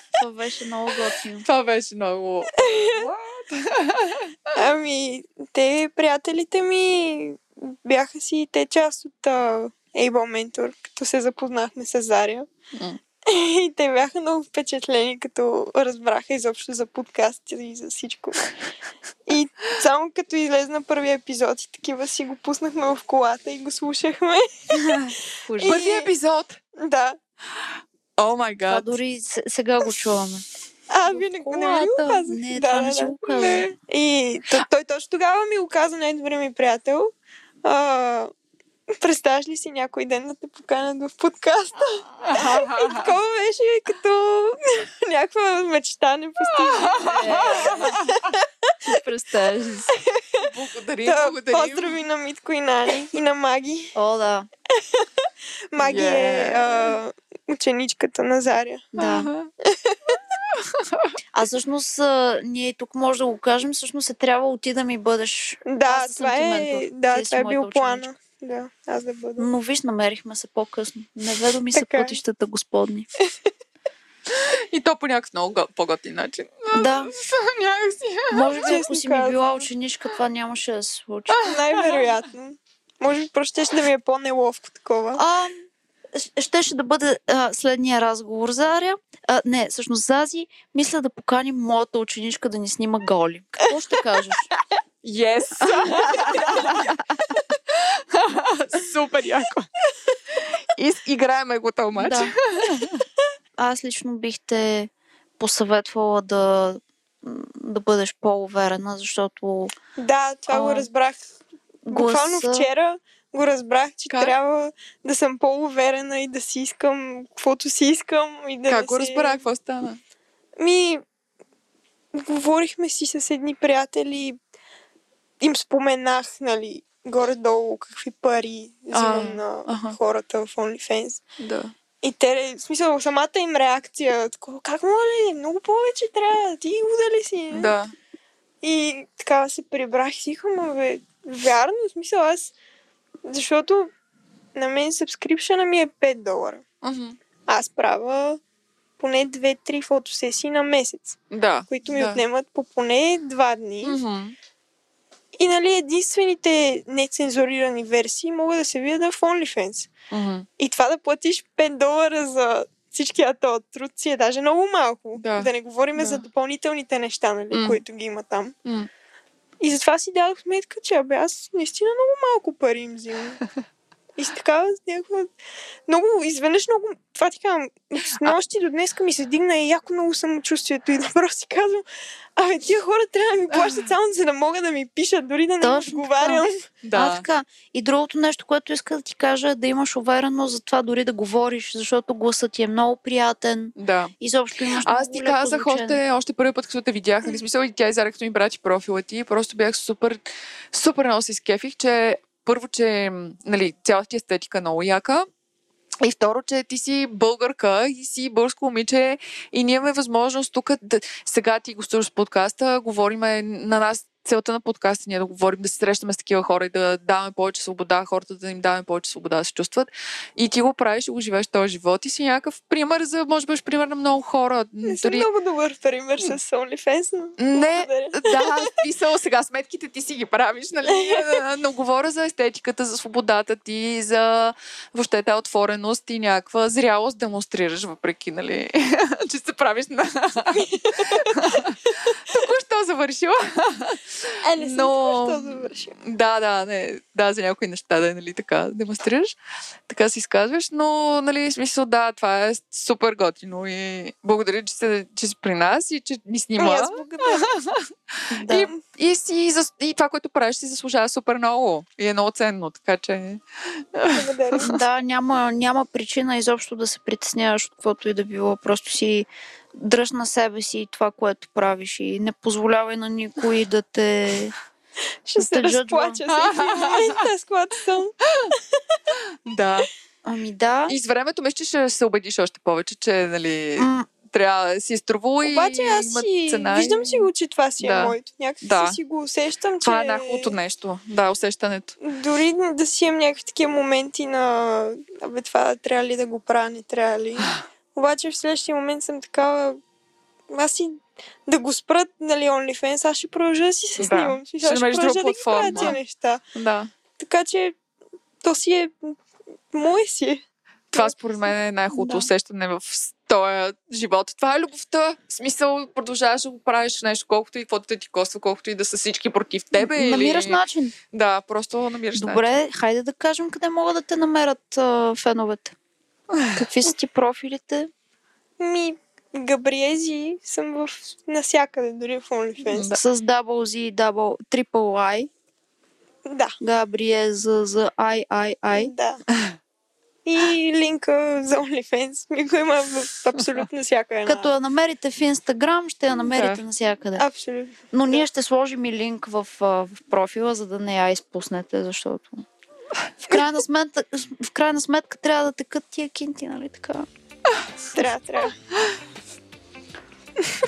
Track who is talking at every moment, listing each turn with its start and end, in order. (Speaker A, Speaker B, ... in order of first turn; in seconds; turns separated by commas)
Speaker A: 0.1-1.5, Speaker B: 1.4-4.6, Speaker C: 2.6-3.1, Speaker C: 4.5-12.5, Speaker C: 13.3-18.5, Speaker C: 19.2-26.1, Speaker A: 24.7-25.8, Speaker B: 25.6-26.6, Speaker C: 26.8-27.2, Speaker B: 28.2-28.9, Speaker A: 28.7-30.4, Speaker C: 30.9-38.3, Speaker A: 31.1-33.7, Speaker C: 39.0-48.4, Speaker B: 42.2-43.1, Speaker B: 46.6-48.2, Speaker A: 47.0-48.0, Speaker A: 48.8-49.9, Speaker C: 49.9-50.4, Speaker B: 50.4-52.0, Speaker C: 51.0-53.9, Speaker A: 53.9-54.5, Speaker C: 54.8-58.9, Speaker B: 55.8-56.9, Speaker A: 58.9-59.3, Speaker B: 59.0-59.5, Speaker C: 59.6-60.0, Speaker B: 60.5-61.1, Speaker A: 61.3-68.1, Speaker C: 65.7-69.5, Speaker A: 69.4-73.1, Speaker C: 71.7-72.2, Speaker C: 73.2-73.5, Speaker B: 74.3-78.7, Speaker A: 76.7-77.1, Speaker A: 78.3-81.5, Speaker C: 78.6-79.7, Speaker B: 81.3-82.1, Speaker C: 81.4-85.2, Speaker A: 85.2-94.5, Speaker B: 95.0-97.0, Speaker A: 95.6-96.9, Speaker B: 97.5-99.7, Speaker B: 100.8-103.0, Speaker A: 102.0-102.3, Speaker A: 103.6-109.7, Speaker C: 110.0-111.2, Speaker A: 110.5-110.9, Speaker A: 111.8-112.7, Speaker C: 111.9-119.4, Speaker B: 118.7-120.0, Speaker C: 120.6-121.0, Speaker C: 122.1-124.4, Speaker C: 125.4-131.2, Speaker B: 128.9-130.0, Speaker B: 131.4-131.7, Speaker C: 132.0-137.7, Speaker B: 137.5-137.9, Speaker C: 138.6-142.5, Speaker C: 143.2-143.9, Speaker C: 144.6-146.6, Speaker B: 146.8-147.2, Speaker C: 147.5-148.4, Speaker C: 149.0-154.0, Speaker B: 151.3-152.2, Speaker B: 153.8-154.3, Speaker C: 155.3-159.9, Speaker B: 160.1-160.5, Speaker C: 160.6-168.5, Speaker B: 165.2-166.2, Speaker B: 167.5-167.8, Speaker C: 169.6-173.4, Speaker C: 174.2-175.3, Speaker C: 175.9-181.8, Speaker C: 182.4-186.6, Speaker B: 183.5-183.9, Speaker A: 185.6-196.0, Speaker B: 186.8-187.2, Speaker B: 193.8-194.1, Speaker B: 194.8-205.2, Speaker B: 206.0-225.3, Speaker C: 224.8-228.7, Speaker B: 227.4-249.3, Speaker C: 230.9-231.4, Speaker C: 240.5-241.6, Speaker C: 244.4-245.9, Speaker B: 249.9-257.9, Speaker C: 256.6-257.5, Speaker A: 258.3-258.7, Speaker B: 258.5-264.8, Speaker C: 264.1-264.7, Speaker A: 264.6-274.5, Speaker C: 275.2-279.0, Speaker A: 275.4-276.2, Speaker B: 276.3-277.3, Speaker B: 279.4-279.9, Speaker A: 280.2-281.0, Speaker B: 280.9-287.3, Speaker A: 283.8-284.1, Speaker C: 285.4-290.5, Speaker B: 287.8-289.0, Speaker B: 289.8-291.9, Speaker C: 292.0-299.8, Speaker C: 300.5-306.4, Speaker B: 304.0-306.0, Speaker B: 306.5-306.9, Speaker C: 307.2-307.7, Speaker C: 308.4-309.2, Speaker C: 309.7-310.4, Speaker B: 310.9-320.6, Speaker A: 311.9-312.3, Speaker A: 319.7-320.9, Speaker B: 321.1-322.5, Speaker A: 322.1-325.7, Speaker B: 326.3-326.6, Speaker A: 326.5-327.9, Speaker C: 328.6-332.9, Speaker B: 332.7-333.0, Speaker A: 332.9-335.3, Speaker C: 336.2-336.6, Speaker A: 336.6-338.9, Speaker C: 338.7-339.2, Speaker C: 340.2-344.5, Speaker A: 344.2-347.2, Speaker B: 346.2-346.6, Speaker C: 347.1-348.2, Speaker A: 347.9-352.4, Speaker A: 353.2-357.1, Speaker C: 357.9-358.6